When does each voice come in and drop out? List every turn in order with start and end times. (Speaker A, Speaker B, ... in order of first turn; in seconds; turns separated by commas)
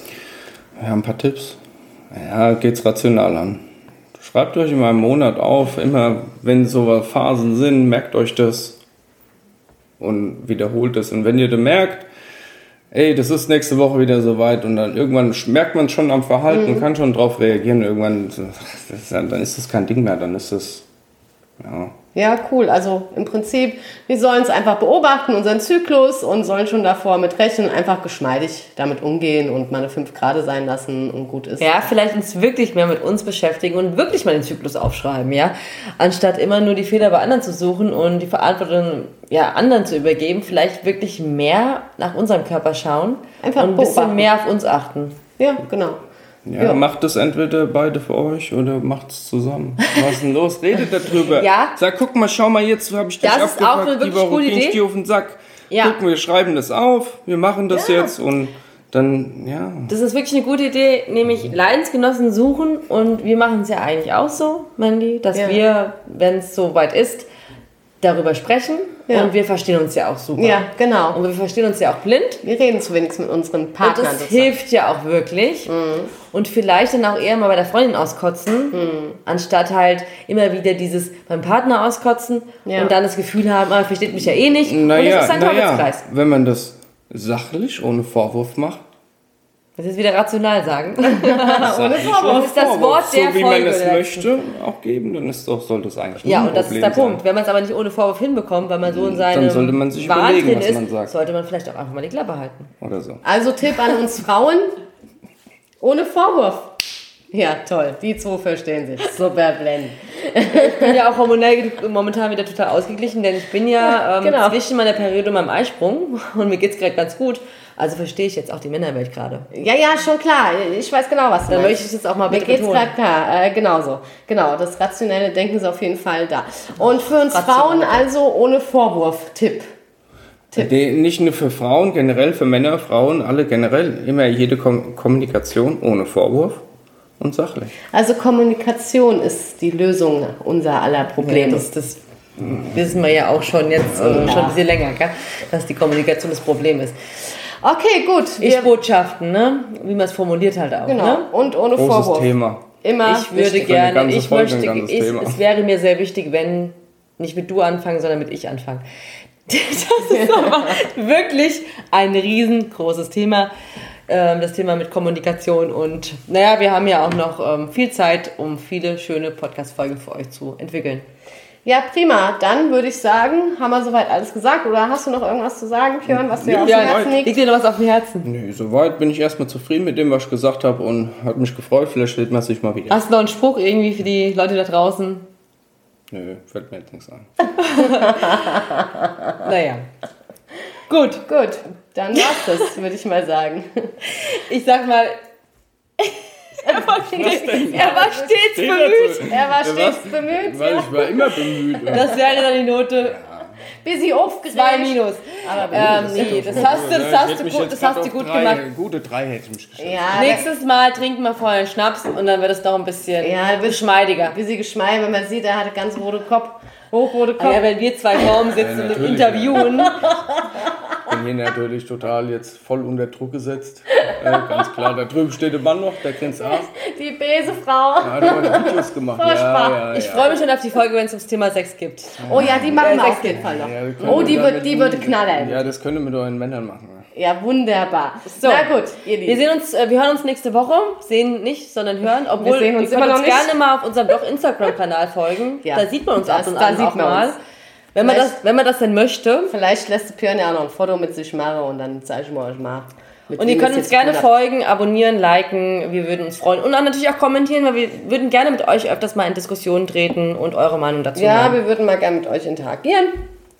Speaker A: 0.8-1.6, Speaker A: 2.1-3.6, Speaker A: 4.2-8.8, Speaker A: 10.0-12.1, Speaker A: 12.9-20.9, Speaker B: 16.5-16.9, Speaker A: 21.6-21.9, Speaker B: 22.1-31.9, Speaker C: 31.6-45.2, Speaker B: 43.4-44.3, Speaker B: 45.4-46.0, Speaker A: 46.4-59.9, Speaker C: 51.3-51.8, Speaker C: 53.2-54.8, Speaker C: 55.7-56.0, Speaker B: 57.7-58.1, Speaker C: 59.9-67.3, Speaker B: 65.3-65.6, Speaker C: 68.0-72.4, Speaker B: 70.4-71.2, Speaker B: 72.4-74.5, Speaker C: 73.8-75.7, Speaker B: 75.7-76.1, Speaker C: 76.3-86.0, Speaker B: 78.7-79.2, Speaker B: 82.6-82.9, Speaker A: 84.4-88.8, Speaker C: 89.8-94.3, Speaker B: 91.2-92.6, Speaker A: 91.6-97.2, Speaker C: 96.2-102.7, Speaker A: 98.8-101.1, Speaker A: 102.8-103.2, Speaker B: 103.2-104.7, Speaker B: 105.8-106.7, Speaker B: 107.3-111.0, Speaker C: 110.5-119.5, Speaker B: 113.8-114.6, Speaker B: 119.5-129.7, Speaker C: 121.5-122.9, Speaker C: 126.9-128.1, Speaker A: 130.6-136.6, Speaker A: 137.2-137.7, Speaker B: 137.9-141.7, Speaker C: 141.2-147.0, Speaker B: 144.1-144.6, Speaker B: 147.6-148.7, Speaker C: 148.4-151.3, Speaker B: 150.8-153.7, Speaker A: 151.8-152.7, Speaker C: 153.0-158.8, Speaker A: 153.6-155.4, Speaker C: 159.5-163.5, Speaker B: 160.1-160.7, Speaker C: 164.1-171.1, Speaker B: 171.6-177.4, Speaker A: 176.1-177.2, Speaker C: 176.6-178.3, Speaker A: 178.2-183.0, Speaker C: 182.9-185.3, Speaker A: 186.1-187.3, Speaker C: 187.6-188.6, Speaker B: 187.8-188.5, Speaker C: 189.4-189.8, Speaker C: 190.9-191.2, Speaker B: 191.3-193.9, Speaker C: 192.1-192.5, Speaker C: 194.2-195.2, Speaker C: 196.0-199.3, Speaker B: 196.6-198.3, Speaker A: 197.1-202.1, Speaker B: 199.2-202.1, Speaker C: 201.9-203.2, Speaker A: 203.0-203.5, Speaker B: 203.8-206.7, Speaker C: 204.5-208.6, Speaker A: 205.6-210.2, Speaker B: 209.8-210.5, Speaker C: 210.1-214.3, Speaker B: 213.2-217.7, Speaker C: 217.4-219.9, Speaker A: 218.5-219.9, Speaker A: 221.1-226.7, Speaker B: 226.6-229.8, Speaker A: 228.0-230.3, Speaker C: 229.9-233.4, Speaker A: 232.2-232.7, Speaker B: 232.2-235.7, Speaker A: 233.3-237.0, Speaker B: 237.1-239.4, Speaker C: 238.2-238.7, Speaker C: 239.2-247.4, Speaker B: 242.4-243.5, Speaker B: 245.6-247.4, Speaker C: 247.9-249.5, Speaker B: 248.0-248.4, Speaker B: 249.5-254.3, Speaker C: 253.4-261.6, Speaker B: 261.1-263.1